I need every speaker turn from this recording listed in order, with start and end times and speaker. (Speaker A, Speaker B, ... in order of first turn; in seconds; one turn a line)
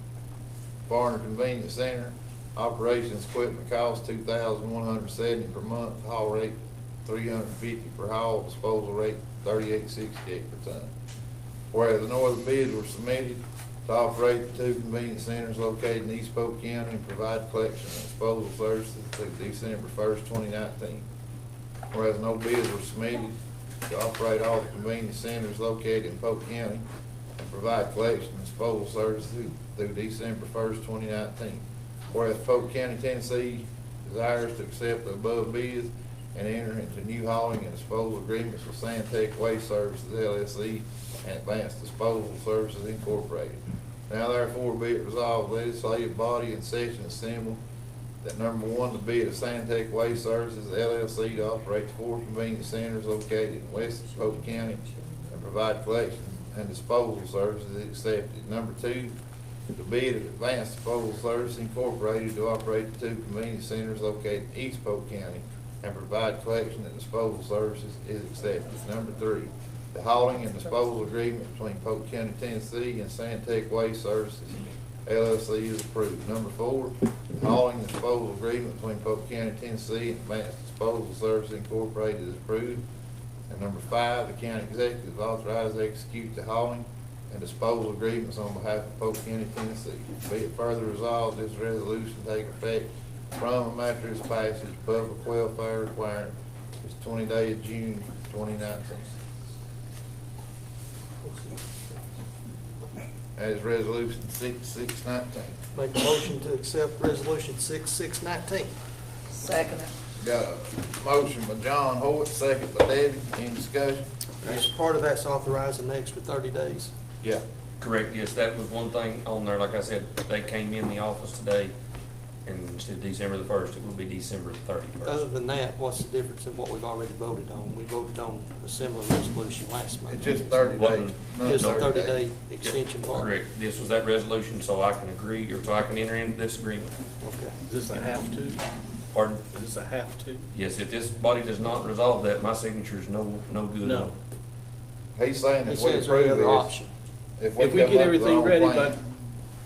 Speaker A: 0.9-10.9
Speaker A: 11.7-21.1
Speaker A: 21.9-26.8
Speaker A: 27.4-47.6
Speaker A: 48.2-59.1
Speaker A: 59.7-82.8
Speaker A: 83.5-99.1
Speaker B: 101.2-101.5
Speaker A: 103.4-105.6
Speaker B: 105.7-108.7
Speaker A: 110.2-114.5
Speaker B: 114.4-116.9
Speaker C: 117.8-121.7
Speaker C: 122.5-125.2
Speaker B: 125.0-130.7
Speaker A: 130.1-132.2
Speaker C: 130.8-131.9
Speaker B: 131.4-133.3
Speaker C: 132.6-136.9
Speaker B: 137.2-137.6
Speaker D: 137.7-138.6
Speaker C: 139.1-139.4
Speaker D: 139.5-140.4
Speaker C: 140.5-144.1
Speaker D: 143.8-144.1
Speaker A: 145.2-146.7
Speaker B: 145.7-146.9
Speaker A: 147.4-149.0
Speaker D: 147.6-148.9